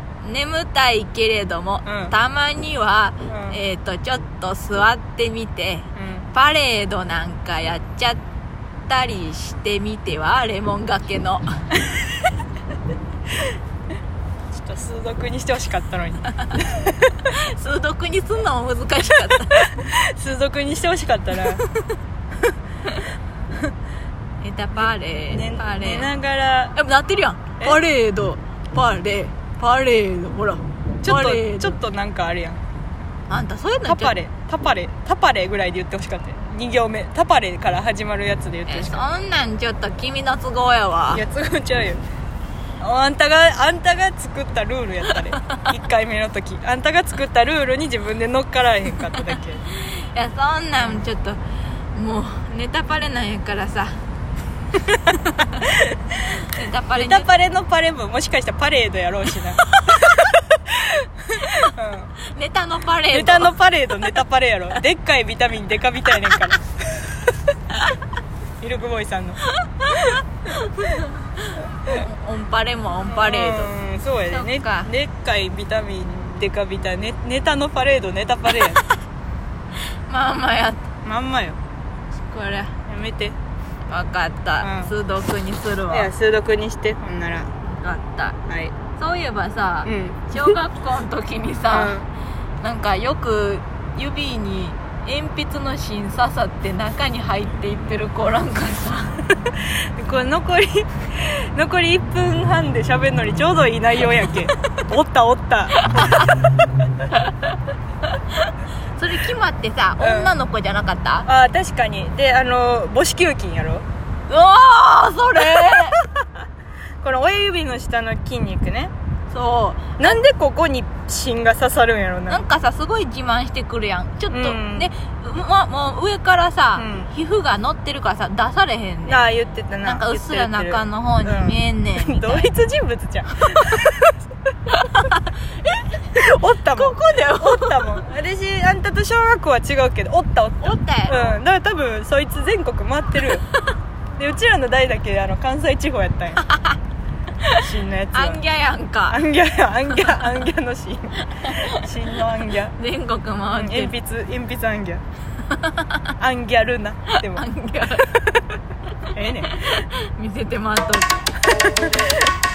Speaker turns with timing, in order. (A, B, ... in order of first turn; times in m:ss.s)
0:00.2-0:08.2 A
0:01.8-0:02.1 B
0:03.2-0:03.6 B
0:06.0-0:06.3 B
0:08.9-0:11.5 A
0:14.5-0:17.1 B
0:17.3-0:19.6 A
0:19.5-0:21.6 B
0:24.4-0:26.1 A
0:24.7-0:26.8 B
0:26.7-0:31.8 A
0:31.0-0:32.6 B
0:33.3-0:34.1 A
0:33.8-0:39.1 B
0:38.7-0:41.2 A
0:41.1-0:42.0 B
0:42.8-0:49.6 B
0:49.9-0:51.4 A
0:50.8-0:51.0 B
0:51.9-0:54.0 A
0:54.9-0:55.6 A
0:56.4-0:57.3 A
0:56.9-1:02.1 B
0:59.8-1:00.2 A
1:02.3-1:03.5 A
1:03.1-1:07.0 B
1:08.6-1:09.4 B
1:09.9-1:13.7 A
1:13.0-1:18.8 B
1:14.3-1:14.9 A
1:20.1-1:20.8 A
1:21.0-1:21.6 B
1:22.3-1:22.7 A
1:22.9-1:23.4 B
1:23.9-1:26.1 A
1:24.6-1:24.9 B
1:25.9-1:27.5 B
1:27.6-1:28.4 A
1:28.5-1:28.8 B
1:29.0-1:31.9 A
1:29.8-1:30.5 B
1:31.7-1:32.1 B
1:32.6-1:39.2 A
1:40.0-1:46.3 B
1:45.8-1:46.4 A
1:49.0-1:51.3 A
1:50.0-1:50.4 B
1:51.2-1:53.8 B
1:54.3-1:56.0 A
1:57.0-1:58.9 B
1:59.3-2:00.2 A
2:00.0-2:02.4 B
2:02.3-2:09.2 A
2:04.3-2:04.9 B
2:06.8-2:07.1 B
2:09.0-2:14.1 B
2:09.8-2:12.5 A
2:14.7-2:15.2 A
2:16.2-2:23.4 B
2:16.7-2:17.9 A
2:20.6-2:21.4 A
2:24.2-2:26.4 B
2:26.4-2:26.8 A
2:27.6-2:28.4 B
2:28.1-2:29.2 A
2:29.1-2:32.7 B
2:31.4-2:31.7 A
2:32.8-2:33.9 A
2:33.5-2:35.0 B
2:35.5-2:35.9 A
2:36.2-2:37.4 B
2:37.3-2:38.2 A
2:39.1-2:39.6 B
2:39.5-2:41.2 A
2:41.6-2:42.1 B